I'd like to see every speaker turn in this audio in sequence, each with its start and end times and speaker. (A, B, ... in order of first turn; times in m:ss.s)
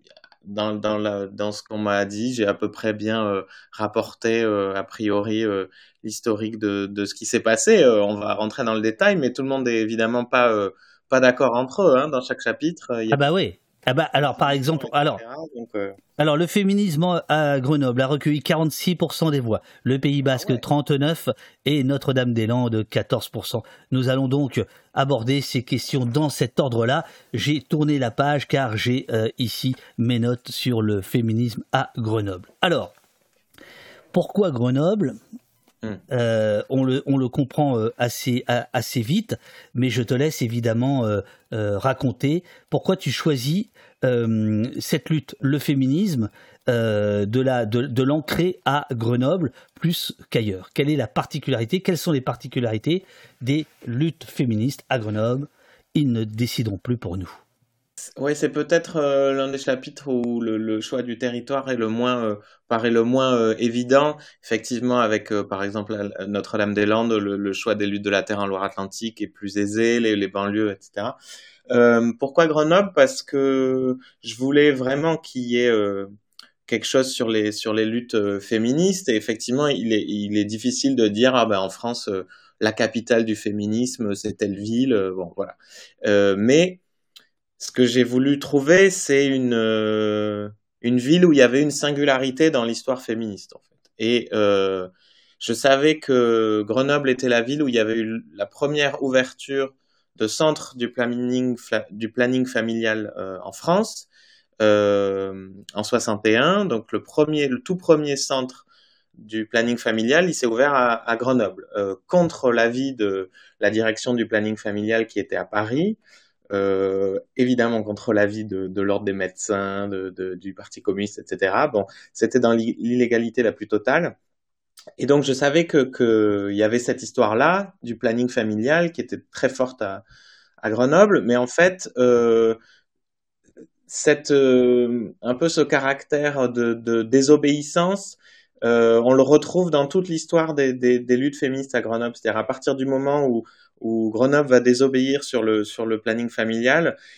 0:00.4-0:13.2 A
0:13.1-0:15.2 B
0:14.3-0:16.0 A
0:16.2-0:32.9 B
0:20.4-0:20.6 A
0:34.1-0:35.2 B
0:36.1-0:57.4 B
0:58.2-1:11.2 A
1:11.7-1:16.1 A
1:16.7-1:26.8 A
1:27.6-1:34.9 A
1:35.4-1:44.1 A
1:44.6-1:56.0 A
1:56.5-2:04.1 A
2:05.0-2:10.0 A
2:10.6-2:12.6 A
2:13.9-2:27.0 A